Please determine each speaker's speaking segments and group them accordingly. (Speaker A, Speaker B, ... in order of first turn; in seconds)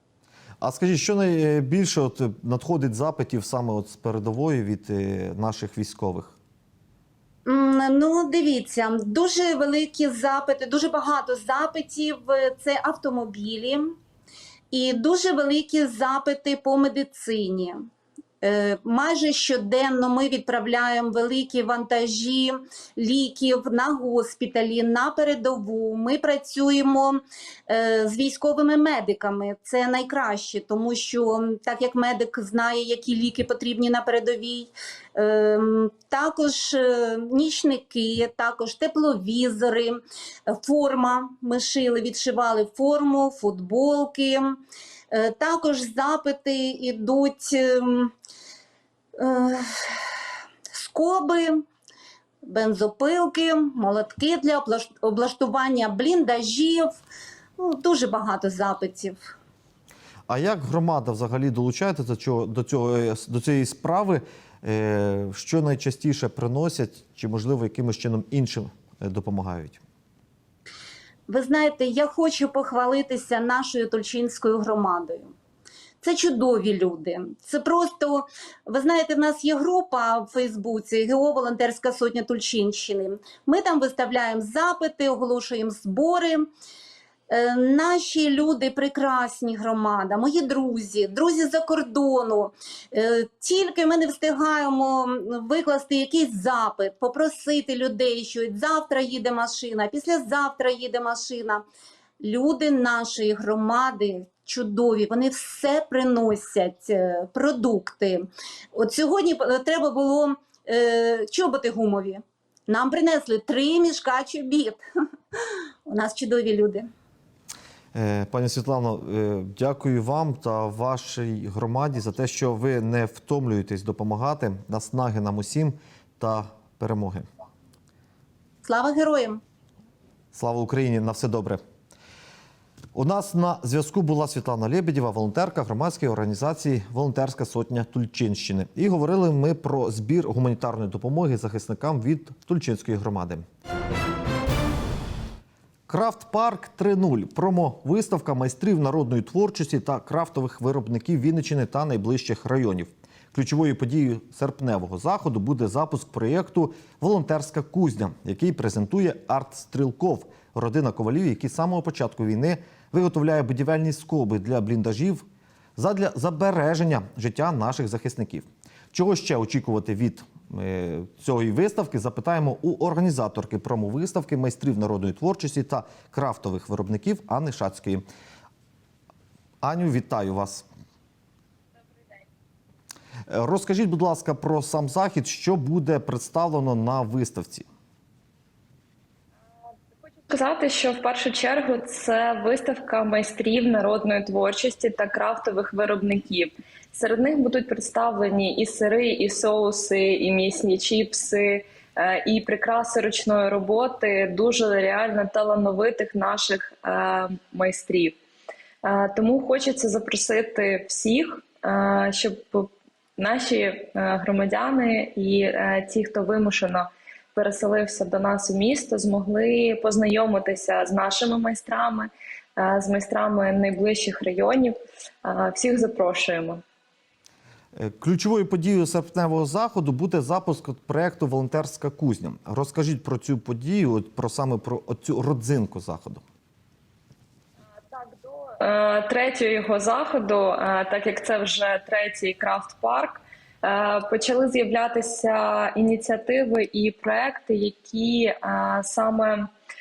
Speaker A: 0.6-6.4, 60.3-69.8, 117.9-127.3, 130.3-131.6, 132.9-143.5, 145.9-165.2, 165.8-178.0, 179.6-180.7, 183.3-187.7, 227.8-236.2
Speaker B: 7.5-14.0, 14.7-17.8, 18.4-44.6, 45.1-48.1, 49.2-50.1, 50.7-51.7, 52.4-56.9, 57.6-59.3, 71.3-75.3, 76.0-86.5, 87.3-101.7, 102.2-114.8, 115.9-116.9, 128.6-129.4
Speaker C: 190.3-208.2, 208.8-226.6, 237.9-249.5